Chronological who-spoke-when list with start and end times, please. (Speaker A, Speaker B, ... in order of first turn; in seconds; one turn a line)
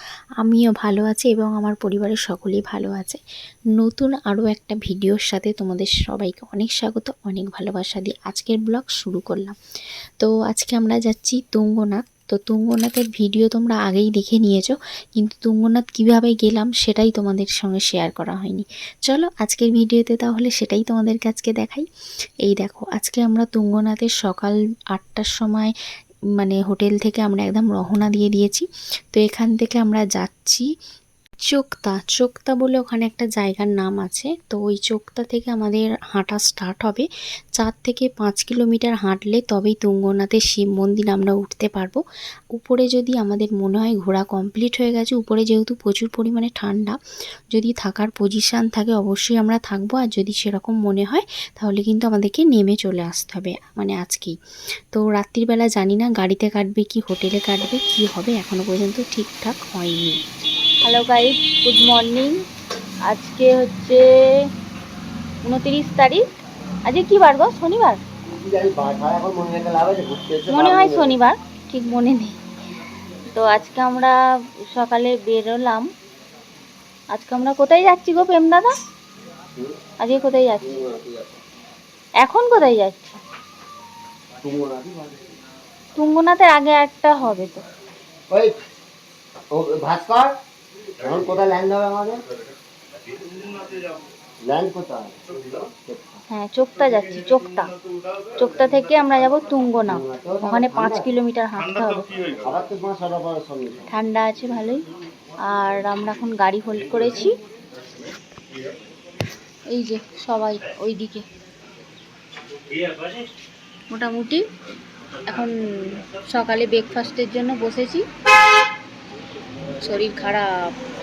Speaker A: 0.4-3.2
Speaker A: 3.8-9.5
Speaker A: 10.2-21.9
Speaker A: 22.4-25.7
Speaker A: 26.4-30.7
Speaker A: 31.5-37.1
Speaker A: 37.6-42.0
Speaker A: 42.5-47.0
Speaker A: 47.5-54.3
Speaker A: 54.9-60.2
Speaker B: 60.8-62.3
Speaker B: 63.1-64.4
Speaker B: 65.4-66.2
Speaker B: 66.8-68.0
Speaker C: 68.3-71.2
Speaker B: 70.5-72.4
Speaker B: 73.3-74.2
Speaker B: 74.7-75.9
Speaker B: 77.1-78.7
Speaker B: 80.0-80.8
Speaker C: 80.6-81.4
Speaker B: 82.2-83.2
Speaker C: 84.4-85.2
Speaker B: 86.0-87.6
Speaker C: 88.3-88.6
Speaker C: 89.5-90.3
Speaker C: 91.0-92.2
Speaker C: 94.4-96.2
Speaker B: 96.3-97.7
Speaker B: 98.3-102.1
Speaker C: 99.9-101.1
Speaker C: 102.4-103.9
Speaker B: 103.9-104.8
Speaker B: 105.4-107.3
Speaker B: 109.7-111.2
Speaker B: 113.9-114.4
Speaker B: 115.2-118.0
Speaker B: 119.8-120.5